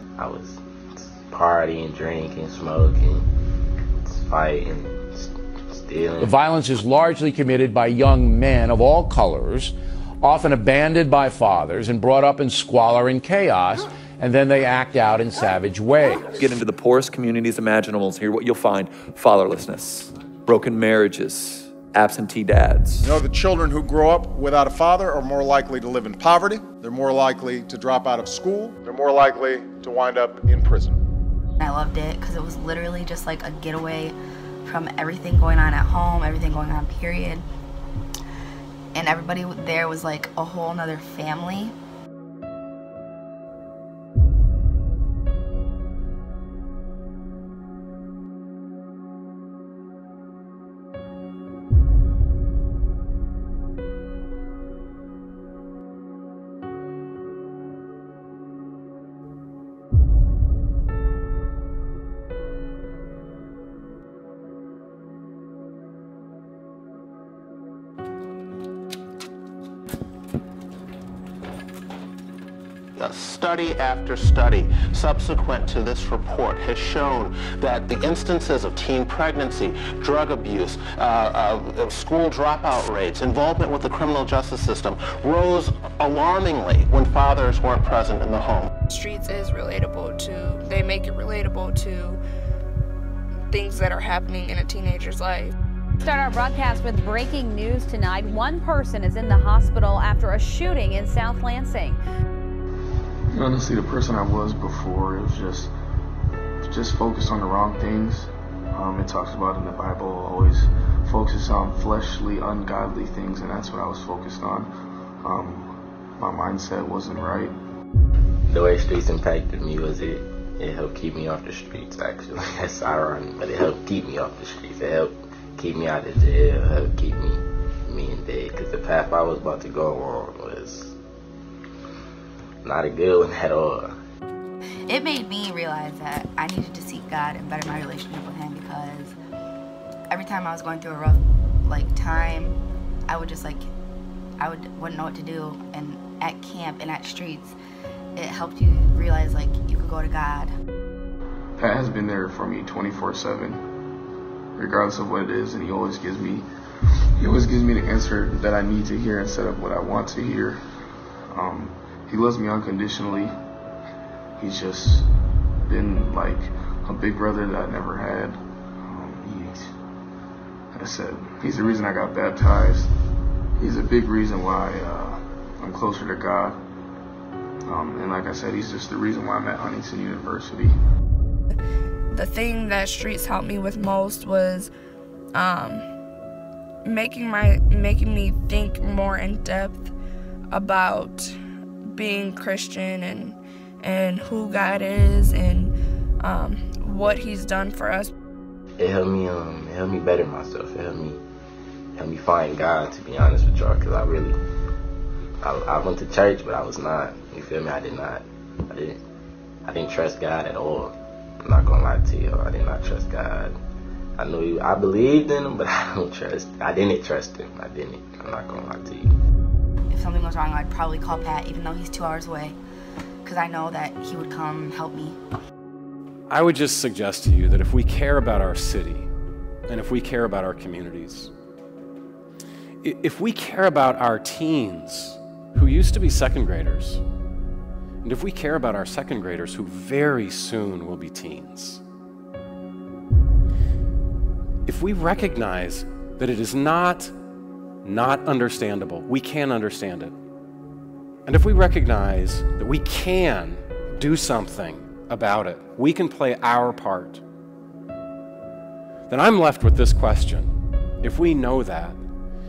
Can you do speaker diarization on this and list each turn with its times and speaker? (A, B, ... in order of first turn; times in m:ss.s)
0:00.2-0:03.2 A
0:04.0-0:06.3 A
0:06.2-0:16.3 B
0:16.3-0:23.1 C
0:23.0-0:31.0 D
0:31.6-0:37.4 E
0:38.9-0:41.7 E
1:13.0-1:28.7 F
1:28.9-1:32.2 G
1:33.5-1:35.5 G
1:36.0-1:42.0 H
1:43.3-1:45.7 I
1:46.6-1:54.7 I
1:55.2-1:57.5 I
1:58.5-2:11.0 A
2:12.6-2:14.0 A
2:14.9-2:19.2 E
2:20.1-2:22.6 E
2:23.1-2:23.7 E
2:24.4-2:27.6 E
2:28.2-2:30.5 E
2:31.6-2:33.6 I
2:34.6-2:36.4 I
2:37.2-2:40.6 I
2:41.3-2:43.3 I
2:44.4-2:45.1 I
2:45.7-2:49.7 I
2:50.7-2:52.9 I
2:53.6-2:56.6 I
2:57.6-3:00.7 I
3:02.1-3:04.7 G
3:05.3-3:05.8 G
3:06.8-3:09.9 G
3:10.5-3:18.1 G
3:18.8-3:21.2 A
3:21.9-3:24.4 A
3:25.4-3:29.0 A
3:29.6-3:33.6 A
3:34.2-3:39.2 A
3:39.9-3:42.6 E
3:43.2-3:45.2 E
3:46.3-3:49.1 J
3:49.7-3:51.3 J
3:52.8-3:57.0 J
3:58.0-4:01.8 J
4:04.6-4:07.1 J
4:07.8-4:10.1 J
4:11.2-4:17.2 J
4:19.1-4:20.5 J
4:21.0-4:22.0 J